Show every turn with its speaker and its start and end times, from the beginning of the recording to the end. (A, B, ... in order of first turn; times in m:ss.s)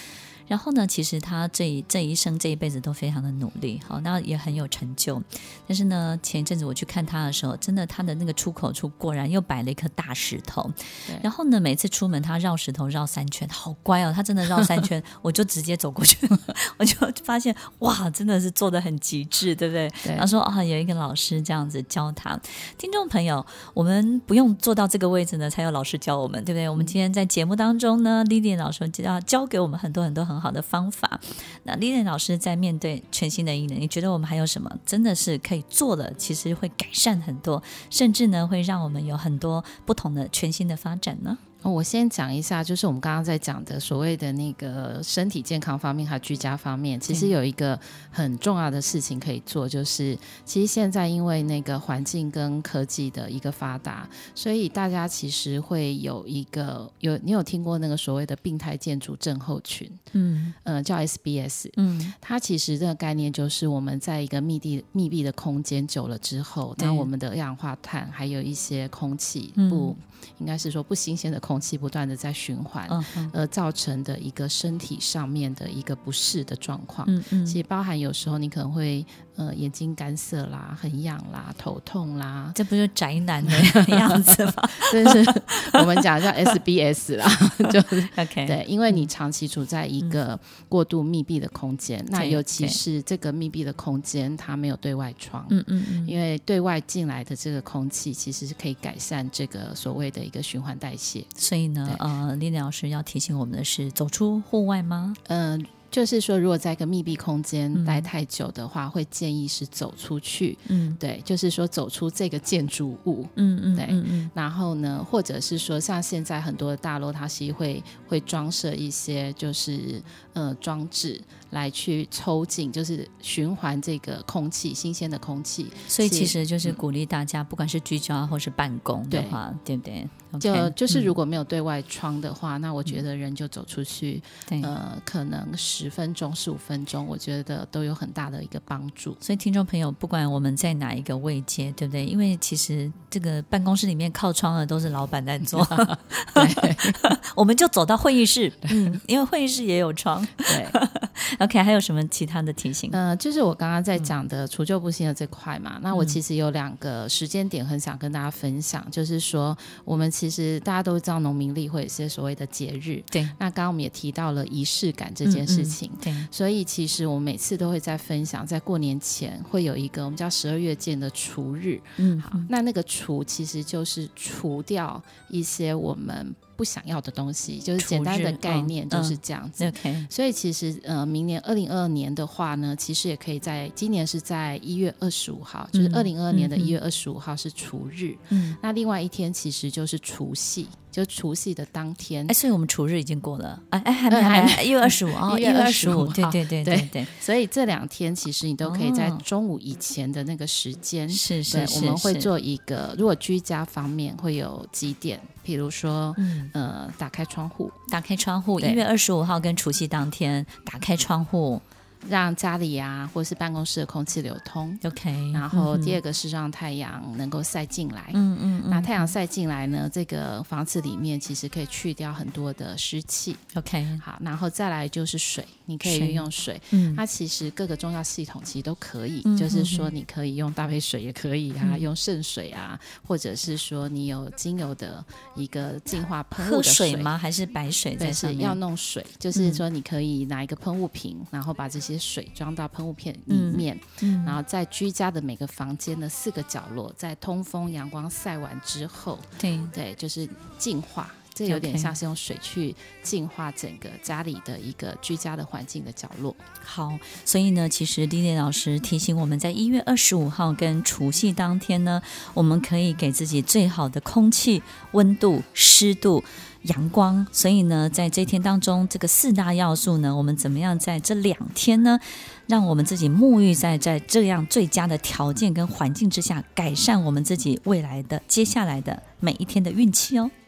0:00.5-0:41.4 A
0:41.6-1:00.0 B
1:00.1-1:00.5 A
1:00.6-1:22.6 B
1:01.8-1:02.1 A
1:06.8-1:07.1 A
1:09.6-1:10.0 A
1:12.9-1:13.3 A
1:17.0-1:17.6 A
1:22.5-1:25.8 A
1:23.4-1:41.3 B
1:28.1-1:29.0 A
1:32.1-1:32.8 A
1:35.5-1:36.1 A
1:41.4-1:45.2 A
1:45.2-2:06.8 B
1:47.7-1:48.1 A
1:50.7-1:51.0 A
1:53.4-1:54.3 A
2:05.9-2:11.1 A
2:09.1-2:09.4 B
2:10.4-2:19.2 B
2:14.5-2:14.7 A
2:19.2-2:33.0 A
2:25.6-2:27.1 B
2:30.4-2:30.8 B
2:32.9-3:12.4 B
2:45.2-2:46.3 A
2:52.0-2:52.5 A
2:57.8-3:00.1 A
3:05.7-3:06.8 A
3:08.3-3:08.6 A
3:12.3-3:17.1 A
3:14.1-3:27.8 B
3:18.6-3:19.2 A
3:21.1-3:22.3 A
3:26.2-3:26.5 A
3:27.9-3:31.6 A
3:28.6-3:28.8 B
3:32.0-3:43.4 B
3:34.8-3:36.0 A
3:38.1-3:39.1 A
3:43.5-3:44.0 A
3:44.0-3:57.1 B
3:45.8-3:47.0 A
3:49.2-3:49.9 A
3:51.6-3:51.9 A
3:56.4-3:58.6 A
3:58.0-4:16.4 B
3:59.3-3:59.6 A
4:03.3-4:04.4 A
4:09.4-4:09.7 A
4:11.4-4:11.9 A
4:16.6-4:40.3 A